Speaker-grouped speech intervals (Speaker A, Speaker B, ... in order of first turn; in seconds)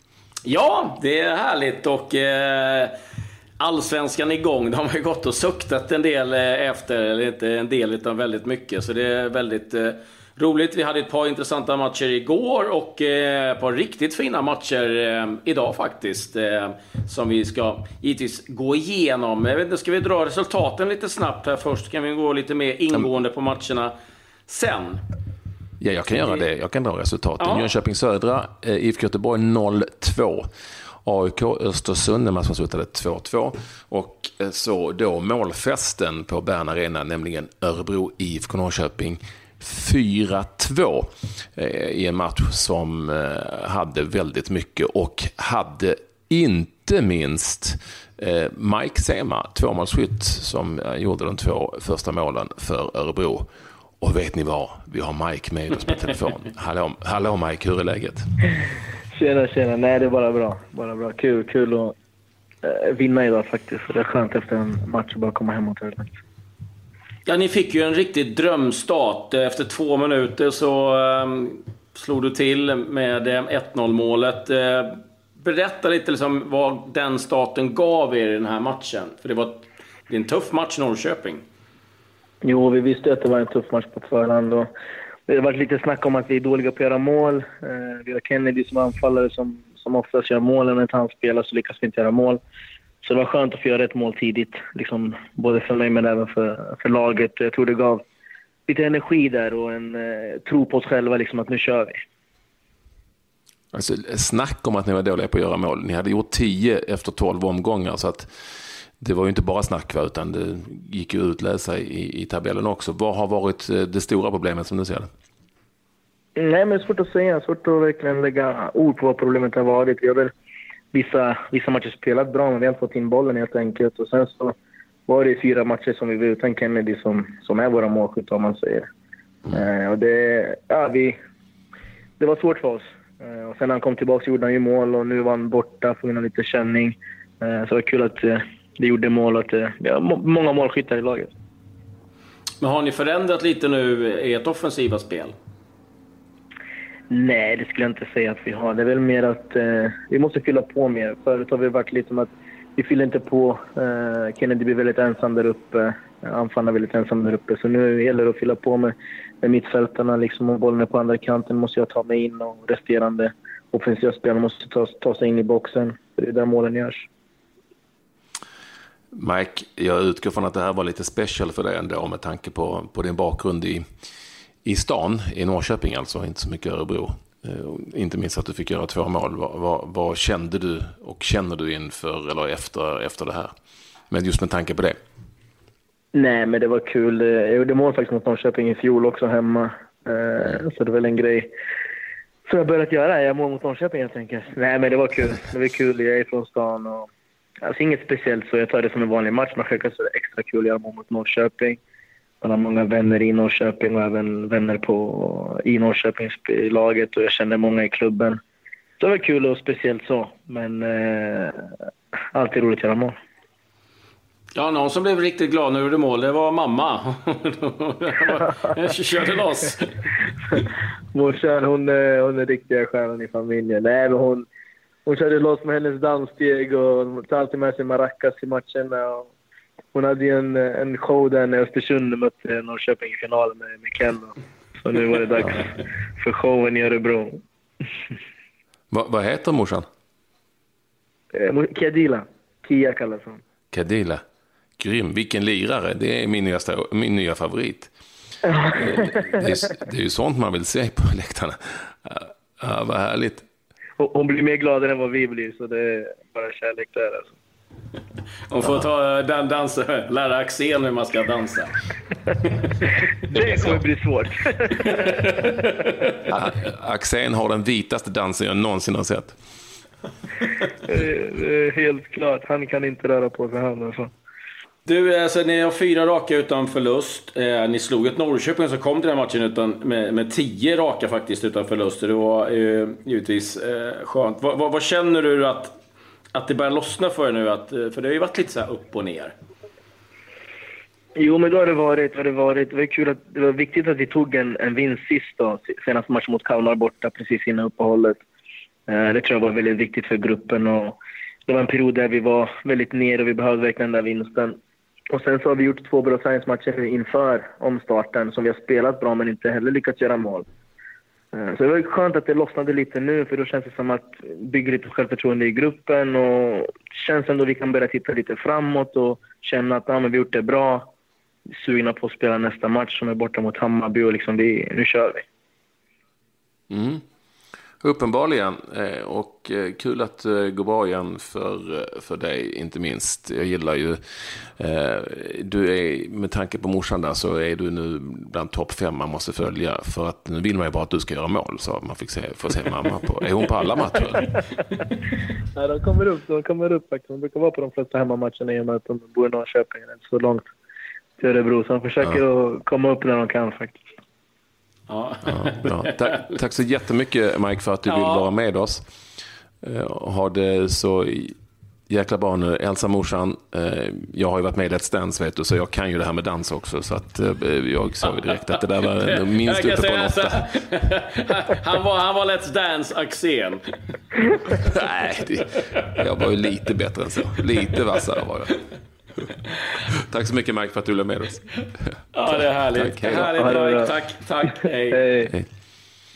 Speaker A: 0.4-2.9, 3.6-23.9, 24.5-25.0, 27.4-27.7, 67.2-81.4, 142.6-145.3, 214.5-220.1, 258.5-261.7, 264.8-266.1, 274.9-285.7, 286.3-289.3, 354.9-355.8, 357.9-358.2, 369.0-373.6, 382.1-385.0
Speaker B: 25.8-30.4, 31.0-53.5, 54.0-58.2, 103.7-108.3, 109.0-115.1, 169.1-173.8, 174.6-183.5, 184.1-185.0, 238.9-239.8, 243.7-244.2, 244.8-247.9, 248.7-253.4, 263.4-263.8, 266.3-269.3, 326.7-327.0, 327.8-334.0, 334.6-344.3, 355.3-358.8, 359.6-361.3, 361.9-370.4, 374.6-378.6, 380.1-381.5, 382.7-383.5
Speaker C: 59.1-61.9, 62.6-66.1, 82.4-84.7, 85.3-92.4, 93.0-98.0, 98.7-102.0, 116.3-120.3, 120.9-124.5, 125.1-128.9, 129.5-131.2, 132.2-141.3, 147.1-167.1, 186.1-191.5, 192.4-197.1, 197.6-201.8, 202.4-208.4, 209.0-211.7, 212.3-213.1, 221.1-224.5, 225.1-229.3, 229.9-237.4, 241.3-243.4, 248.5-249.1, 254.0-257.3, 263.3-264.7, 270.8-274.1, 291.1-298.2, 298.9-304.6, 305.1-310.5, 311.3-320.9, 321.5-325.2, 345.5-350.5, 351.2-353.8, 383.4-383.9, 384.9-385.3